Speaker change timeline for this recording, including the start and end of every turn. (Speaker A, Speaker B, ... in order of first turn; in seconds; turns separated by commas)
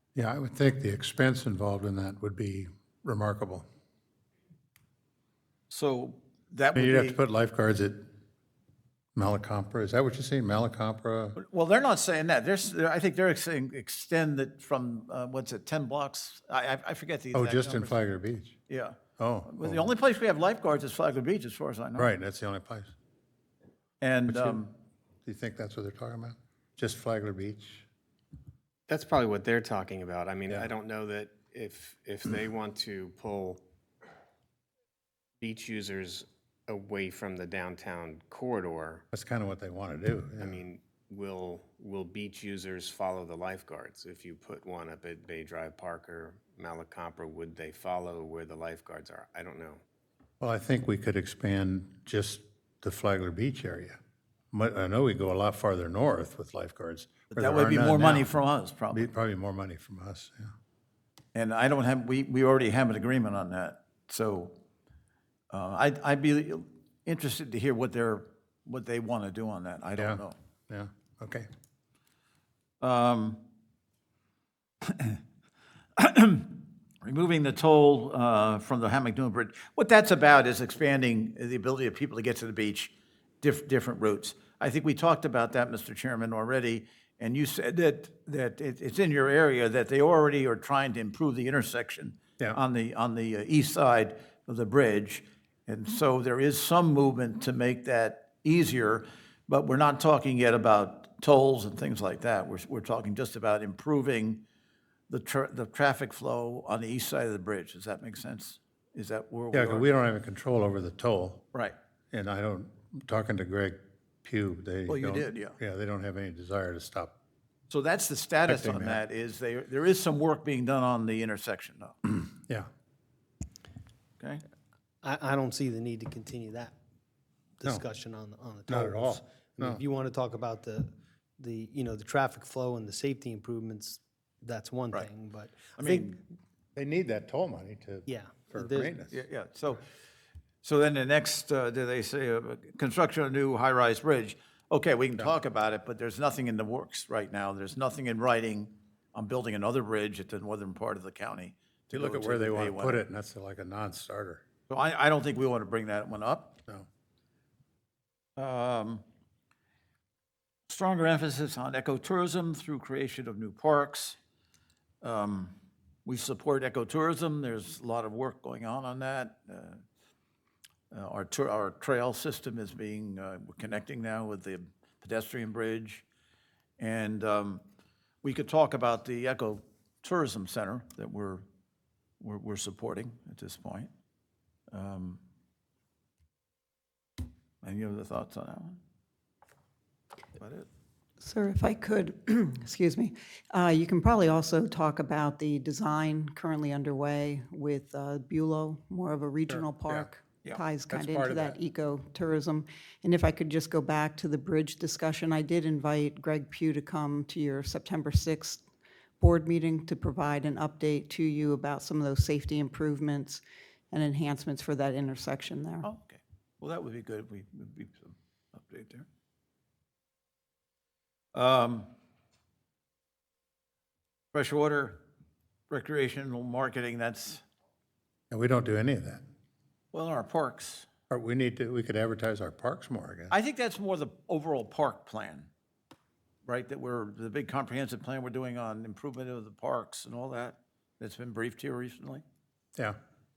Speaker A: 0.1-3.6, Speaker B: 5.7-7.2, Speaker A: 6.7-8.1, Speaker A: 9.2-11.4, Speaker B: 11.4-18.0, Speaker A: 17.3-18.6, Speaker B: 18.7-22.1, Speaker A: 19.2-19.9, Speaker A: 21.9-22.9, Speaker B: 24.0-24.7, Speaker A: 24.3-24.6, Speaker A: 25.2-27.9, Speaker C: 28.9-33.6, Speaker C: 35.4-39.0, Speaker A: 39.1-40.6, Speaker C: 40.4-49.8, Speaker A: 50.4-54.0, Speaker A: 54.5-58.3, Speaker B: 57.3-59.1, Speaker A: 58.9-60.5, Speaker B: 61.3-64.5, Speaker B: 65.5-70.3, Speaker A: 70.0-71.5, Speaker B: 72.8-73.4, Speaker B: 74.8-75.2, Speaker B: 76.0-104.4, Speaker B: 105.1-109.8, Speaker A: 109.5-111.4, Speaker A: 112.1-117.1, Speaker B: 114.9-115.5, Speaker B: 117.7-121.9, Speaker A: 118.5-119.0, Speaker A: 122.0-122.7, Speaker D: 125.0-126.7, Speaker D: 127.6-136.2, Speaker A: 128.7-129.8, Speaker B: 135.8-136.2, Speaker A: 136.7-139.2, Speaker D: 138.1-138.9, Speaker B: 139.1-139.8, Speaker B: 140.6-153.0, Speaker A: 151.9-154.4, Speaker B: 154.7-156.6, Speaker B: 158.4-159.0, Speaker B: 160.7-164.2, Speaker B: 165.0-165.5, Speaker B: 166.1-169.8, Speaker B: 170.9-176.0, Speaker B: 176.8-177.6, Speaker B: 178.2-181.4, Speaker B: 182.2-183.9, Speaker B: 184.7-185.2, Speaker B: 187.6-188.8, Speaker B: 190.3-190.7, Speaker E: 191.2-208.6, Speaker A: 199.5-200.1, Speaker A: 200.9-201.6, Speaker E: 209.2-215.9, Speaker B: 215.8-219.1, Speaker B: 221.3-221.9, Speaker B: 224.3-225.0, Speaker B: 225.7-227.4, Speaker A: 228.3-229.2, Speaker B: 229.9-230.9, Speaker A: 231.1-233.3, Speaker B: 233.3-235.5, Speaker B: 236.4-242.2